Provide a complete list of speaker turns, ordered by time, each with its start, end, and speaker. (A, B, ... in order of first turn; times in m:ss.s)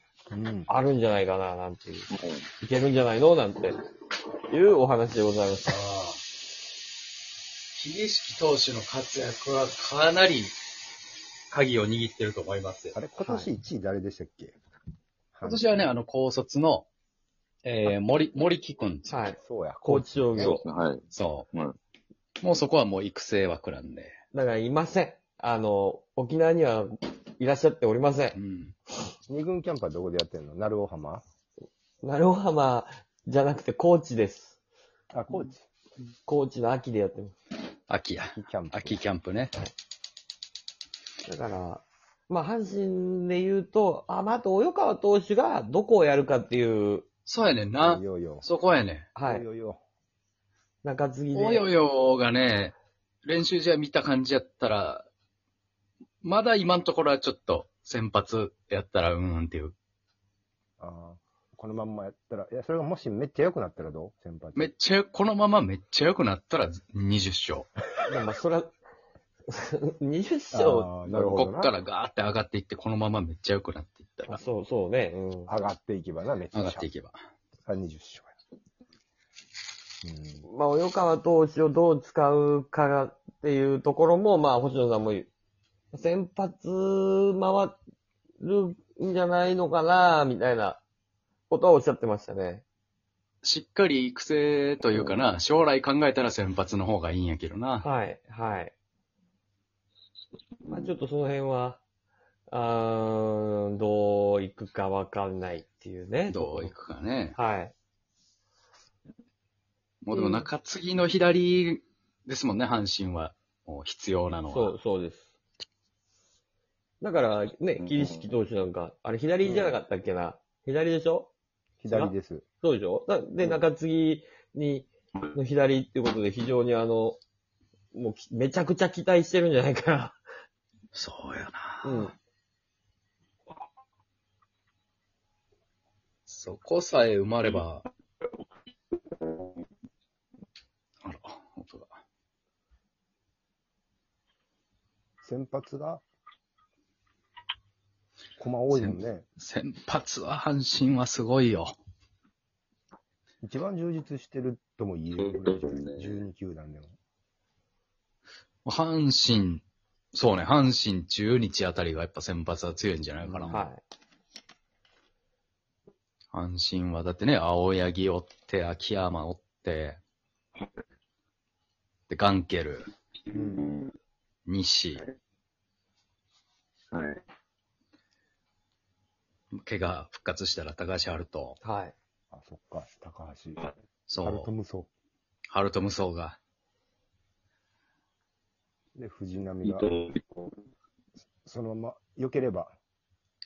0:00.3-0:00.7 A
0:00.7-0:02.1 B
0:02.1-0:02.5 C
0:02.6-0:03.8 B
0:04.5-0:05.8 B
0:05.7-0:06.2 D
0:07.7-0:10.6 D
0:11.5-0:13.0 D
0:12.9-0:14.6 A
0:13.2-0:13.5 B
0:15.3-0:15.7 A
0:15.4-0:16.9 D
0:17.6-0:19.2 D
0:19.1-0:20.7 B
0:19.4-0:20.6 A
0:20.4-0:21.8 C
0:21.1-0:21.5 D
0:22.4-0:24.1 D
0:24.3-0:28.4 B
0:28.4-0:28.7 D
0:29.3-0:31.2 A
0:32.0-0:34.6 B
0:35.1-0:35.6 A
0:36.2-0:37.3 B
0:37.9-0:39.5 D
0:38.3-0:39.0 A
0:41.2-0:47.1 B
0:47.3-0:49.1 D
0:47.8-0:48.5 A
0:49.2-0:49.4 B
0:49.2-0:49.8 A
0:50.8-0:51.7 B
0:51.3-0:55.1 D
0:56.2-0:59.8 D
1:00.8-1:04.7 A
1:04.6-1:07.7 D
1:08.1-1:08.7 B
1:09.5-1:10.9 B
1:10.5-1:11.7 A
1:11.0-1:14.4 D
1:14.3-1:15.2 B
1:15.1-1:16.9 A
1:16.5-1:17.2 D
1:17.7-1:18.3 A
1:20.0-1:20.5 A
1:20.4-1:25.3 B
1:25.9-1:27.8 B
1:28.4-1:30.8 B
1:31.5-1:32.6 B
1:33.4-1:37.9 D
1:37.8-1:38.7 B
1:40.6-1:40.9 C
1:40.7-1:41.8 B
1:42.5-1:46.7 B
1:46.3-1:47.4 D
1:47.4-1:47.7 B
1:50.0-1:54.7 D
1:50.1-1:50.5 B
1:54.5-1:55.3 B
1:57.0-2:01.3 B
1:57.8-1:58.2 C
1:59.4-1:59.8 A
2:01.8-2:02.4 A
2:01.9-2:07.2 B
2:07.9-2:10.2 B
2:10.9-2:12.1 D
2:11.8-2:12.1 B
2:16.3-2:17.8 D
2:19.1-2:19.6 C
2:21.0-2:22.0 D
2:25.2-2:26.0 A
2:28.4-2:29.2 A
2:28.7-2:31.8 D
2:33.4-2:36.9 A
2:35.2-2:36.2 C
2:38.6-2:43.7 D
2:43.5-2:43.8 B
2:46.3-2:50.0 D
2:52.1-2:52.9 D
2:53.2-2:54.0 C
2:53.3-2:53.7 A
2:54.5-2:55.0 D
2:56.9-2:57.2 C
2:59.5-3:01.6 D
3:01.6-3:02.0 B
3:02.3-3:04.9 A
3:04.1-3:04.5 D
3:05.5-3:06.4 D
3:09.0-3:09.9 A
3:09.6-3:10.6 C
3:11.4-3:12.7 A